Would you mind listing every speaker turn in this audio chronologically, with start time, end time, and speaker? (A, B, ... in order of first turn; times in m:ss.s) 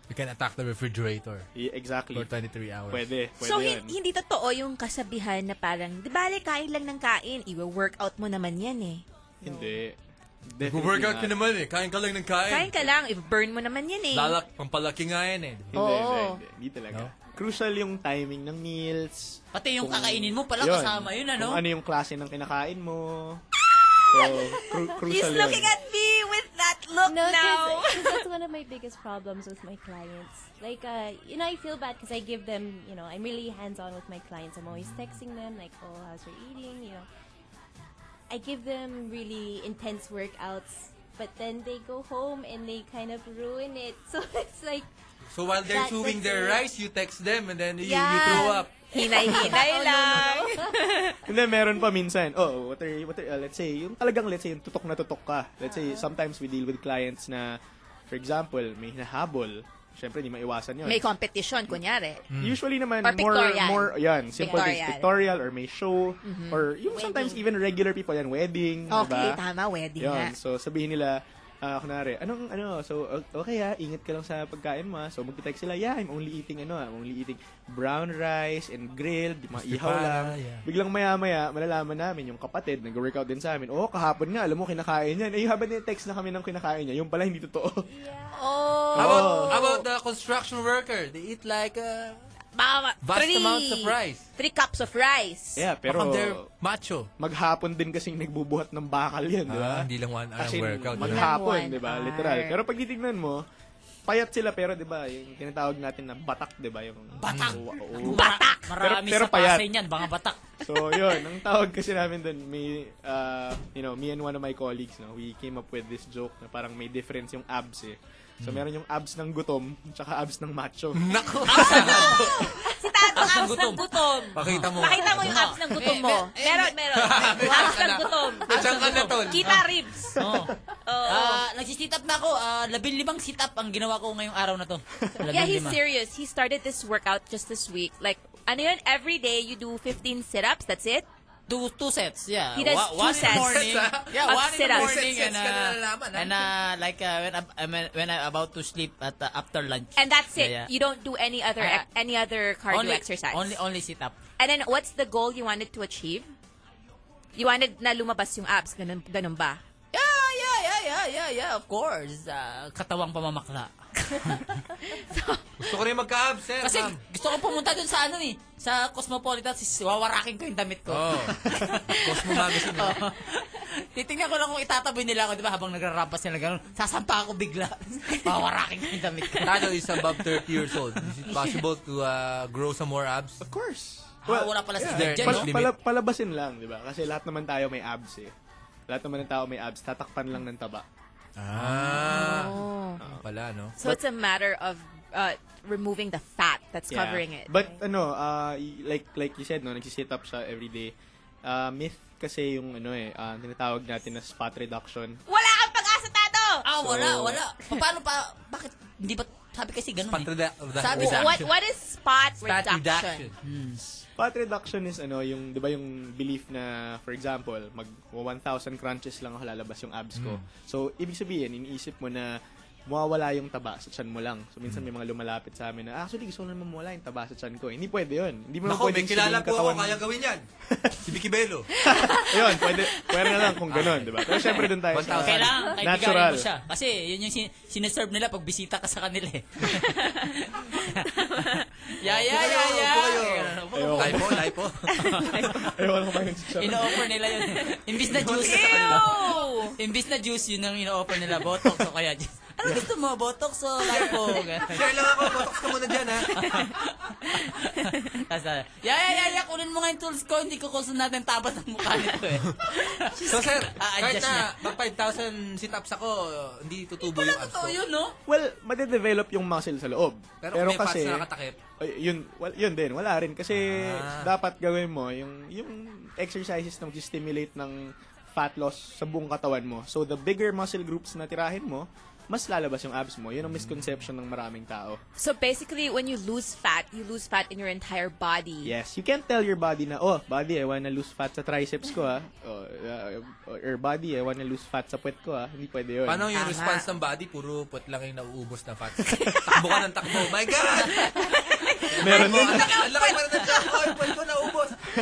0:00.1-0:01.5 A
0:01.5-0:02.3 B
0:02.1-0:03.1 A
0:02.9-0:04.0 B
0:03.4-0:09.0 C
0:09.4-0:10.0 B
0:10.5-0:11.3 B
0:10.6-0:12.9 A
0:12.5-0:14.4 C
0:14.1-0:15.7 A
0:15.7-0:16.4 C
0:15.7-0:23.4 B
0:19.5-0:21.6 D
0:24.0-0:28.2 C
0:24.1-0:25.7 B
0:27.0-0:37.1 E
0:34.7-0:35.2 A
0:38.3-0:44.9 E
0:45.3-0:48.7 A
0:45.6-0:46.6 E
0:47.8-0:51.2 C
0:47.9-0:50.7 E
0:51.3-0:57.6 B
0:55.6-0:56.1 E
0:58.1-1:01.1 B
1:00.8-1:02.2 C
1:02.3-1:02.6 A
1:02.3-1:09.4 B
1:03.0-1:05.1 C
1:06.2-1:07.4 C
1:08.9-1:10.4 C
1:10.0-1:27.9 B
1:19.6-1:20.6 A
1:27.9-1:28.6 E
1:28.3-1:29.8 C
1:28.9-1:29.8 B
1:29.0-1:32.2 A
1:32.5-1:35.6 C
1:33.0-1:34.2 A
1:35.6-1:36.5 B
1:35.8-1:37.1 A
1:37.2-1:43.4 B
1:39.5-1:41.3 A
1:40.9-1:42.6 C
1:44.1-1:49.7 B
1:47.2-1:50.4 D
1:47.2-1:47.6 A
1:48.2-1:48.6 C
1:50.6-2:01.1 B
1:58.4-1:58.6 A
2:01.0-2:02.4 A
2:01.4-2:02.5 D
2:01.7-2:10.1 C
2:03.1-2:06.7 D
2:04.3-2:05.6 A
2:06.9-2:09.7 A
2:07.4-2:07.8 D
2:08.5-2:09.6 D
2:10.2-2:10.5 D
2:10.8-2:11.4 C
2:11.1-2:15.8 D
2:15.3-2:21.1 C
2:21.5-2:30.7 D
2:22.5-2:23.7 C
2:23.1-2:26.4 A
2:24.2-2:25.0 C
2:30.0-2:33.5 C
2:31.6-2:31.8 D
2:32.7-2:34.2 D
2:34.4-2:36.3 C
2:37.3-2:39.6 C
2:39.9-2:44.4 D
2:44.9-2:45.5 C
2:45.6-2:47.0 A
2:46.6-2:51.8 D
2:50.9-2:53.0 A
2:52.6-3:00.2 D
2:59.4-3:03.4 A
3:03.4-3:08.3 B
3:04.2-3:05.5 D
3:04.8-3:05.8 A
3:08.9-3:10.8 B
3:11.4-3:13.8 A
3:11.8-3:13.0 C
3:13.8-3:17.5 C
3:16.9-3:20.9 B
3:17.5-3:17.8 E
3:21.4-3:25.2 B
3:25.3-3:26.6 C
3:26.6-3:31.4 D
3:26.8-3:27.4 B
3:30.1-3:31.5 A
3:30.9-3:33.2 C
3:32.4-3:33.3 A
3:33.4-3:33.8 D
3:34.2-3:50.0 B
3:40.1-3:40.5 A
3:48.6-3:50.4 A
3:50.7-3:51.1 B
3:51.0-3:51.7 A
3:51.8-3:56.5 B
3:52.1-3:52.5 C
3:53.7-3:55.6 A
3:55.1-3:59.8 D
3:59.8-4:01.7 C
4:02.0-4:05.7 D
4:02.0-4:04.9 A
4:03.7-4:04.5 B
4:04.9-4:05.6 C
4:05.5-4:07.0 B
4:06.6-4:09.1 D
4:07.5-4:07.8 C
4:08.1-4:09.1 A
4:08.4-4:09.8 C
4:09.8-4:15.0 D
4:14.6-4:16.3 A
4:16.3-4:24.6 D
4:23.3-4:27.8 A
4:27.0-4:28.1 D
4:28.3-4:31.3 B
4:30.4-4:31.6 A
4:31.8-4:45.0 B
4:33.5-4:34.3 A
4:43.4-4:44.0 A
4:45.2-4:48.7 C
4:48.6-4:56.3 B
4:56.0-5:01.1 A
4:56.3-4:56.9 C
4:59.3-4:59.5 C
5:00.9-5:02.2 C
5:02.0-5:04.8 A
5:02.0-5:02.7 B
5:02.8-5:03.7 C